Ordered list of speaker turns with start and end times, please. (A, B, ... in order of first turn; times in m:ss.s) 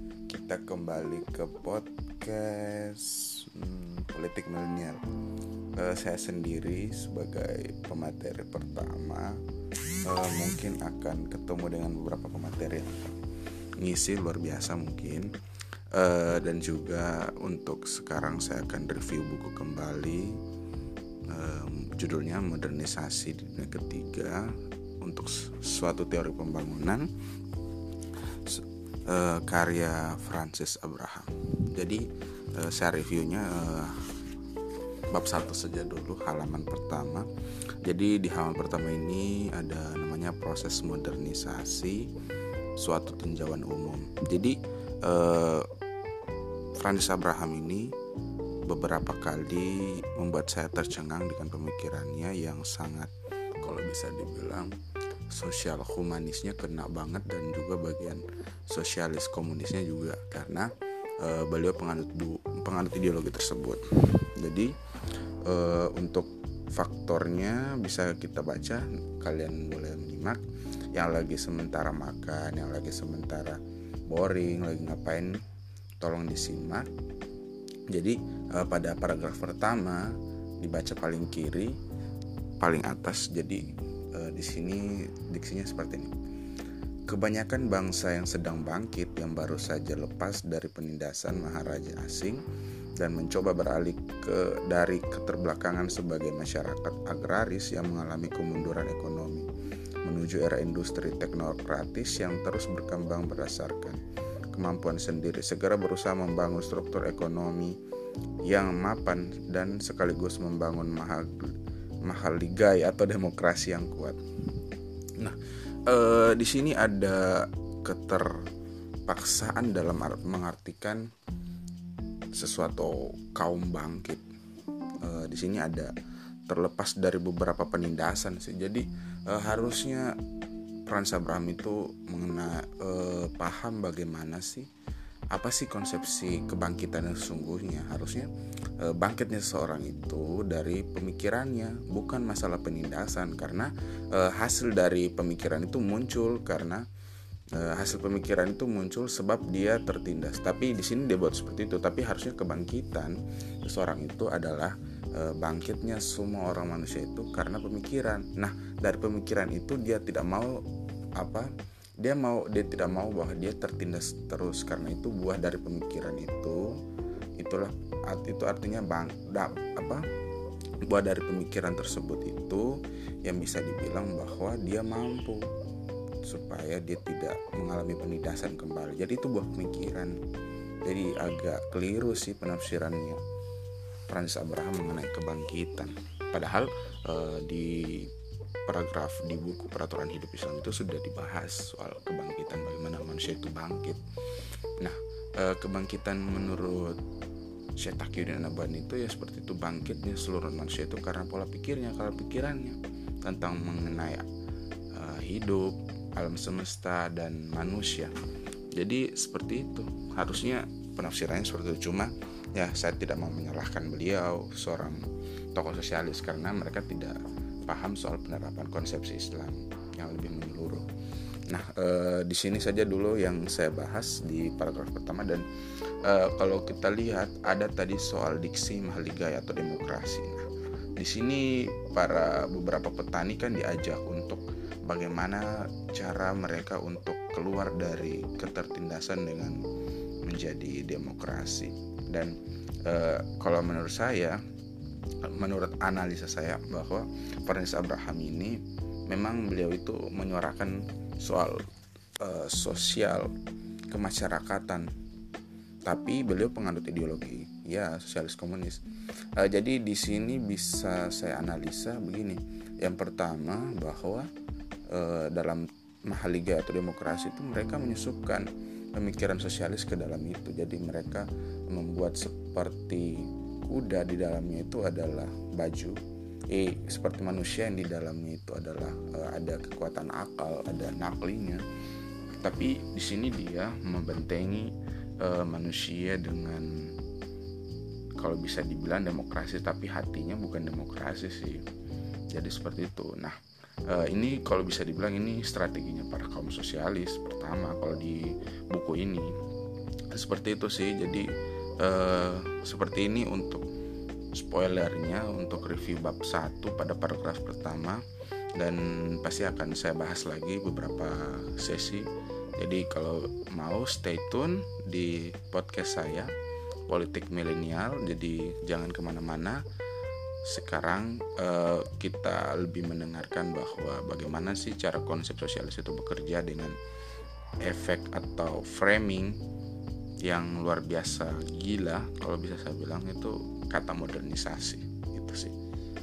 0:00.3-0:05.0 A
0:05.8-0:09.4 A
0:10.0-0:13.2 A
0:13.8-0:15.3 A
0:15.9-0:20.4 A
0:21.3-0:27.1 A
0:28.3-0:34.2 A
0:35.1-0:37.3 A
0:37.8-0:42.1 A
0:42.8-0:45.7 A
0:46.8-0:47.9 A
0:48.6-0:54.7 A
0:55.3-1:04.7 A
1:05.4-1:10.4 A
1:10.9-1:15.4 A
1:16.0-1:16.9 A
1:17.9-1:21.8 A
1:22.6-1:26.1 A
1:27.1-1:32.4 A
1:33.0-1:39.5 A
1:40.0-1:44.0 A
1:44.5-1:47.8 A
1:48.4-1:54.2 A
1:55.2-1:58.5 A
1:59.1-2:01.0 A
2:02.3-2:04.2 A
2:05.0-2:05.9 A
2:06.5-2:10.1 A
2:10.9-2:14.7 A
2:15.3-2:26.8 A
2:27.5-2:40.6 A
2:41.2-2:41.5 A
2:42.0-2:46.8 A
2:47.4-2:50.0 A
2:50.9-2:55.5 A
2:56.2-3:00.2 A
3:00.8-3:03.2 A
3:04.1-3:08.1 A
3:08.7-3:14.0 A
3:14.8-3:17.0 A
3:17.8-3:24.3 A
3:24.9-3:28.1 A
3:28.7-3:40.8 A
3:41.5-3:45.4 A
3:46.0-3:50.4 A
3:51.0-3:59.6 A
4:00.2-4:04.4 A
4:05.2-4:11.6 A
4:12.2-4:13.3 A
4:13.9-4:14.9 A
4:15.8-4:18.8 A
4:19.4-4:24.3 A
4:24.9-4:41.6 A
4:42.4-4:46.9 A
4:48.2-4:51.6 A
4:52.3-4:59.3 A
5:00.1-5:01.3 A
5:01.8-5:03.6 A
5:04.3-5:08.0 A
5:08.6-5:16.3 A
5:16.9-5:19.6 A
5:20.4-5:26.8 A
5:27.6-5:29.4 A
5:30.2-5:35.5 A